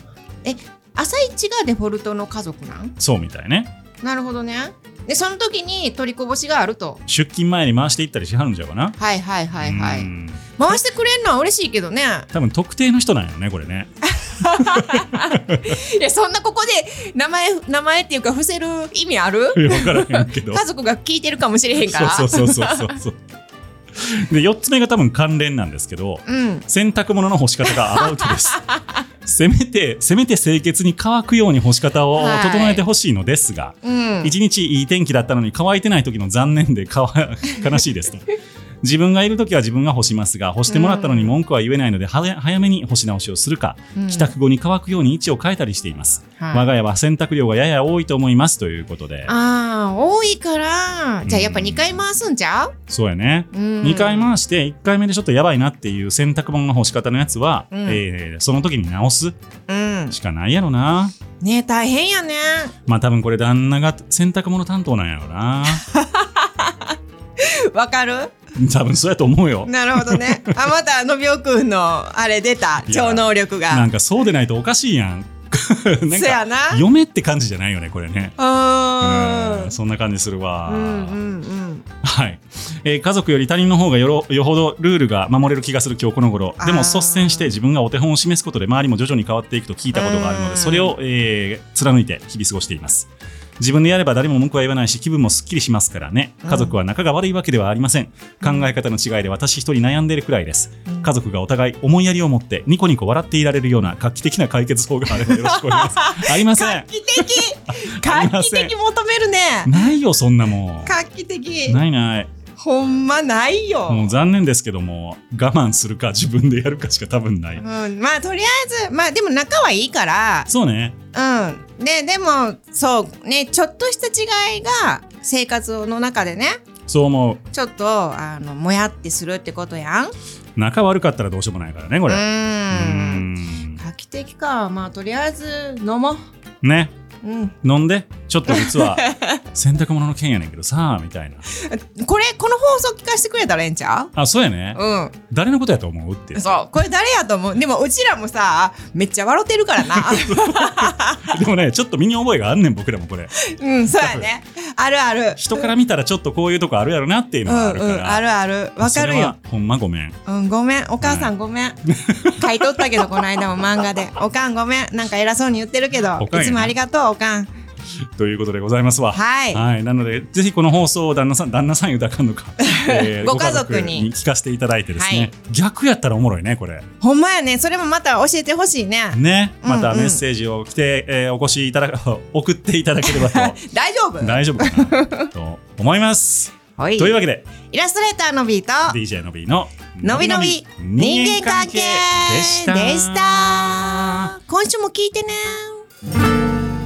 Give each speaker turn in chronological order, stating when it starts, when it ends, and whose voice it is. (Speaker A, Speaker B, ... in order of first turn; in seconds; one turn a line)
Speaker A: 0.4-2.9
Speaker B: 3.0-3.7
Speaker A: 4.0-7.0
Speaker B: 7.1-8.9
Speaker A: 9.0-12.3
Speaker B: 9.6-10.5
Speaker B: 12.3-13.9
Speaker A: 14.1-22.9
Speaker B: 14.4-15.8
Speaker B: 19.5-20.6
Speaker B: 21.8-23.2
Speaker B: 23.9-28.6
Speaker A: 26.3-26.6
Speaker A: 27.8-28.8
Speaker B: 29.2-38.3
Speaker A: 32.2-32.8
Speaker A: 33.8-34.3
Speaker B: 38.8-49.3
Speaker A: 40.7-41.3
Speaker A: 43.9-44.3
Speaker A: 46.4-46.6
Speaker A: 49.3-52.7
Speaker B: 51.2-52.0
Speaker B: 52.9-59.3
Speaker A: 53.5-54.3
Speaker A: 57.7-58.0
Speaker A: 59.7-60.1
Speaker B: 60.1-61.1
Speaker A: 61.4-62.7
Speaker B: 62.9-65.8
Speaker A: 65.7-68.3
Speaker B: 68.5-70.6
Speaker A: 69.7-73.8
Speaker B: 72.8-78.3
Speaker A: 76.1-76.8
Speaker A: 78.4-79.7
Speaker B: 79.0-81.2
Speaker A: 80.7-81.8
Speaker B: 82.0-108.7
Speaker A: 86.6-87.5
Speaker A: 89.9-90.9
Speaker A: 96.4-96.7
Speaker A: 105.1-109.7
Speaker B: 109.6-111.0
Speaker A: 110.8-111.8
Speaker B: 111.7-112.3
Speaker A: 112.6-114.1
Speaker B: 113.9-117.6
Speaker A: 117.6-120.5
Speaker B: 120.5-121.0
Speaker A: 121.1-126.6
Speaker B: 126.9-127.4
Speaker A: 127.5-130.1
Speaker B: 130.6-133.8
Speaker A: 132.1-133.2
Speaker A: 133.8-136.2
Speaker B: 136.6-136.9
Speaker A: 137.2-137.5
Speaker B: 137.6-141.4
Speaker A: 138.5-139.4
Speaker A: 141.5-144.1
Speaker B: 144.1-146.6
Speaker A: 144.7-145.1
Speaker A: 146.3-151.4
Speaker B: 149.9-153.4
Speaker A: 153.3-155.7
Speaker B: 154.0-154.3
Speaker B: 155.3-158.2
Speaker A: 157.4-159.3
Speaker B: 158.8-160.2
Speaker A: 160.2-161.8
Speaker B: 161.0-161.3
Speaker B: 161.9-163.2
Speaker A: 162.3-167.5
Speaker B: 166.1-166.7
Speaker B: 168.2-176.8
Speaker A: 169.1-169.6
Speaker A: 172.6-174.1
Speaker A: 175.0-175.3
Speaker A: 177.0-180.2
Speaker B: 179.1-183.6
Speaker A: 183.0-185.3
Speaker B: 184.2-187.5
Speaker A: 186.8-189.0
Speaker B: 188.9-194.3
Speaker A: 190.0-195.8